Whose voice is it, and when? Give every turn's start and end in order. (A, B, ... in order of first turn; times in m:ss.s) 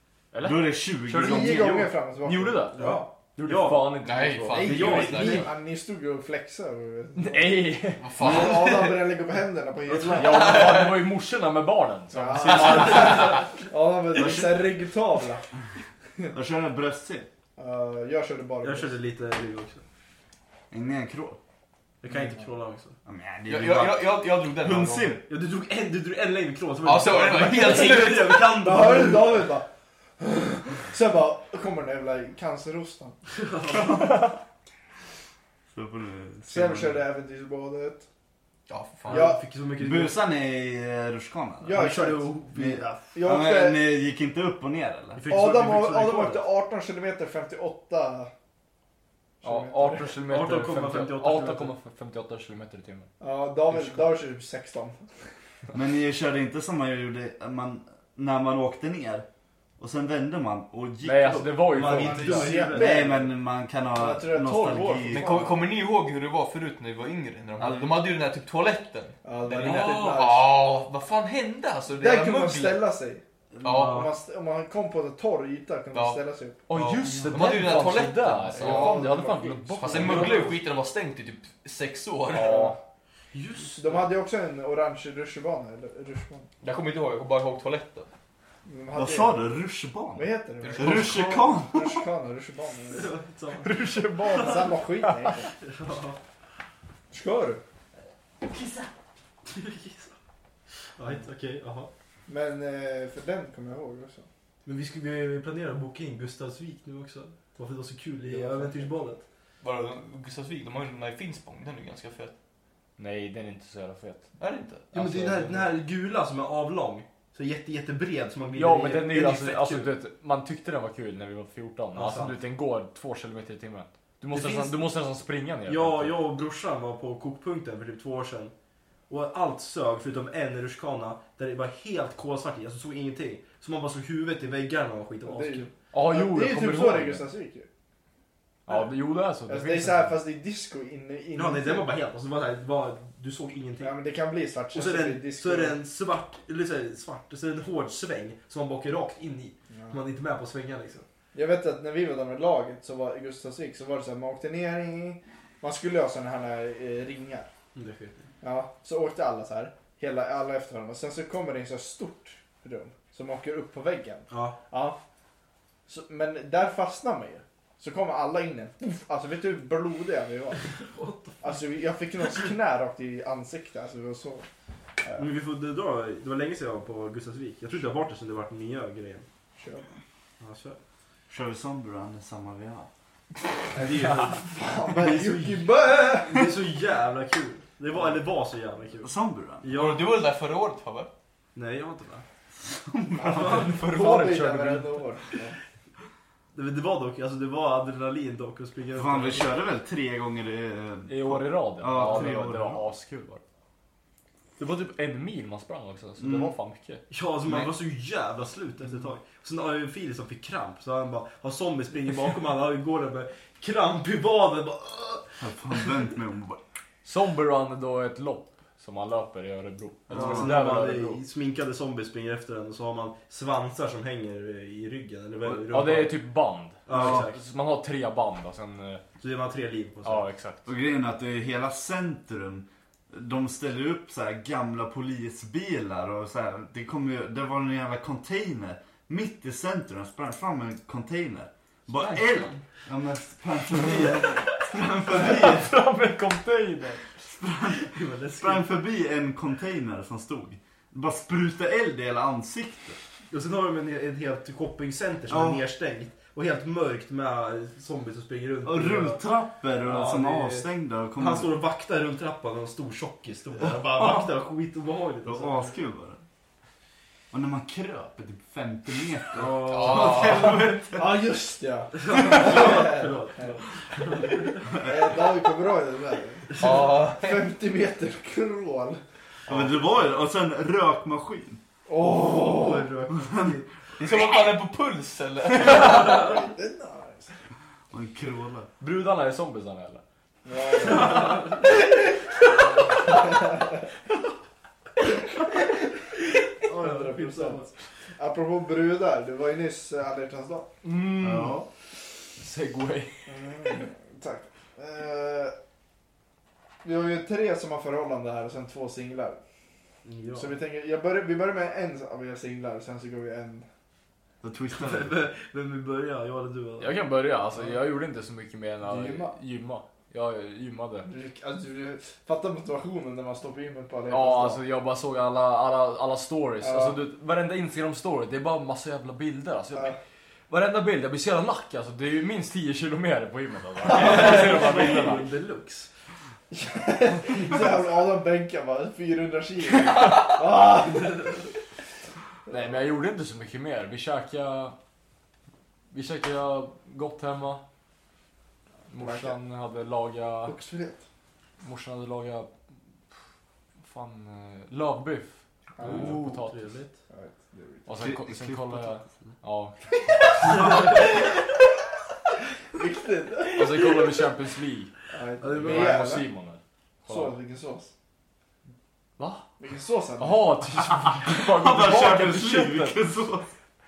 0:00.3-0:05.4 A
0:00.4-0:01.8 B
0:01.2-0:03.1 C
0:01.5-0:01.8 D
0:02.8-0:05.5 D
0:04.0-0:05.4 E
0:04.6-0:07.7 C
0:07.2-0:08.1 A
0:08.0-0:09.0 E
0:08.2-0:10.9 C
0:09.9-0:10.2 D
0:10.0-0:13.4 A
0:10.2-0:11.0 E
0:12.1-0:15.5 C
0:16.3-0:17.3 B
0:17.6-0:19.0 C
0:18.6-0:19.8 D
0:20.7-0:21.4 B
0:22.0-0:23.0 D
0:22.1-0:22.4 C
0:23.0-0:25.2 B
0:23.5-0:25.2 E
0:25.3-0:29.4 D
0:26.8-0:28.6 E
0:28.6-0:29.7 C
0:30.2-0:33.2 C
0:33.3-0:34.3 D
0:35.7-0:37.0 B
0:36.5-0:38.1 C
0:38.7-0:39.3 E
0:39.1-0:40.2 D
0:39.1-0:39.4 C
0:39.8-0:41.9 B
0:41.6-0:43.8 C
0:41.7-0:43.0 D
0:42.6-0:45.3 B
0:45.2-0:46.5 D
0:45.3-0:48.3 C
0:49.4-0:50.2 C
0:49.4-0:53.1 A
0:50.2-0:51.7 D
0:53.2-0:55.0 C
0:53.7-0:54.0 D
0:55.7-0:59.3 B
0:59.8-1:02.1 B
1:01.0-1:02.6 A
1:01.7-1:03.2 D
1:01.8-1:03.3 C
1:02.7-1:05.4 B
1:03.9-1:05.6 C
1:05.1-1:12.8 E
1:07.6-1:08.0 B
1:09.2-1:10.6 C
1:12.0-1:13.2 C
1:13.6-1:14.1 E
1:13.7-1:14.1 D
1:13.8-1:16.6 C
1:15.9-1:16.2 E
1:16.7-1:20.6 A
1:16.8-1:19.1 E
1:17.0-1:17.5 D
1:18.5-1:20.4 C
1:19.8-1:22.6 E
1:19.9-1:20.5 D
1:22.3-1:22.8 A
1:22.3-1:22.8 C
1:23.3-1:24.1 D
1:23.7-1:26.5 C
1:26.6-1:28.1 E
1:28.7-1:29.4 C
1:28.9-1:32.1 B
1:30.2-1:33.2 C
1:30.6-1:31.4 E
1:32.9-1:33.8 D
1:33.6-1:35.4 A
1:34.2-1:35.5 C
1:35.6-1:36.2 D
1:37.1-1:37.6 C
1:39.5-1:40.2 D
1:41.0-1:41.9 D
1:42.3-1:44.3 C
1:44.6-1:49.2 D
1:48.2-1:49.0 C
1:49.6-1:52.3 E
1:53.0-1:54.3 A
1:54.4-1:55.1 E
1:54.9-1:59.9 D
1:55.0-1:55.7 A
1:58.6-2:06.2 A
2:02.0-2:02.4 D
2:04.3-2:04.8 D
2:05.7-2:08.5 D
2:09.1-2:15.7 D
2:15.2-2:17.7 C
2:15.9-2:17.2 A
2:18.7-2:20.2 A
2:19.5-2:22.0 C
2:21.3-2:24.0 D
2:23.8-2:25.8 C
2:24.7-2:31.1 D
2:29.7-2:30.0 C
2:31.3-2:37.5 C
2:37.8-2:38.3 D
2:38.4-2:45.0 C
2:44.3-2:44.6 D
2:45.9-2:50.8 C
2:50.7-2:51.5 D
2:51.4-2:54.5 C
2:55.0-2:55.3 C
2:55.2-2:59.3 D
2:59.6-3:00.0 C
3:00.4-3:00.8 D
3:01.3-3:02.9 B
3:03.8-3:09.1 D
3:03.8-3:06.5 C
3:09.0-3:09.7 B
3:09.6-3:10.1 D
3:09.7-3:11.1 E
3:11.6-3:12.2 D
3:12.6-3:13.8 B
3:13.3-3:15.1 A
3:13.3-3:13.7 D
3:13.6-3:15.6 C
3:16.5-3:19.5 D
3:19.0-3:22.9 B
3:21.1-3:23.4 A
3:24.6-3:27.0 A
3:26.2-3:26.5 B
3:27.1-3:35.4 D
3:27.4-3:27.7 B
3:35.4-3:36.6 B
3:37.0-3:41.2 A
3:40.1-3:40.5 B
3:40.1-3:46.2 D
3:45.7-3:49.0 A
3:46.9-3:47.4 D
3:46.9-3:47.2 B
3:49.2-3:50.3 D
3:50.0-3:50.6 A
3:50.6-4:05.7 B
4:02.0-4:02.5 D
4:05.1-4:07.1 A
4:07.2-4:13.0 B
4:07.8-4:08.7 D
4:13.3-4:19.2 D
4:15.3-4:15.6 B
4:18.6-4:21.5 B
4:19.8-4:25.7 D
4:24.0-4:24.2 B
4:25.2-4:26.2 B
4:27.3-4:31.1 B
4:29.3-4:30.7 D
4:29.7-4:30.6 E
4:31.0-4:33.6 C
4:32.0-4:34.8 D
4:34.7-4:39.0 C
4:36.6-4:37.4 E
4:39.5-4:41.6 B
4:41.9-4:42.9 C
4:42.2-4:43.7 D
4:43.1-4:43.6 B
4:44.0-4:46.4 E
4:45.7-4:47.3 C
4:47.9-4:48.7 B
4:48.8-4:50.0 A
4:50.4-4:51.5 C
4:50.8-4:51.5 D
4:53.1-4:53.7 C
4:56.6-4:57.7 D
4:56.7-5:00.7 C
5:00.8-5:01.6 A
5:01.2-5:01.7 B
5:02.4-5:03.8 A
5:03.3-5:05.5 C
5:06.8-5:09.4 C
5:10.0-5:10.6 D
5:10.4-5:13.7 C
5:14.4-5:15.2 B
5:14.7-5:17.0 D
5:16.8-5:21.1 A
5:18.8-5:19.4 C
5:21.1-5:24.6 C
5:24.1-5:30.0 A
5:26.6-5:27.0 C
5:30.5-5:35.3 A
5:33.9-5:35.9 D
5:36.5-5:41.5 C
5:37.4-5:37.7 D
5:42.5-5:44.8 A
5:45.9-5:47.6 A
5:48.9-5:50.6 A
5:49.0-5:49.4 C
5:50.5-5:51.0 C
5:51.6-5:52.5 A
5:53.8-5:56.7 A
5:55.8-5:56.2 C
5:55.8-5:57.0 D
5:57.1-5:58.0 C
5:57.9-6:00.6 A
5:58.0-5:59.3 B
6:02.7-6:04.0 C
6:03.5-6:04.9 A
6:05.1-6:06.3 C
6:05.4-6:06.2 D
6:05.5-6:07.4 A
6:07.1-6:07.9 C
6:09.2-6:09.5 A
6:09.6-6:10.6 C
6:10.2-6:13.0 A
6:11.3-6:13.5 B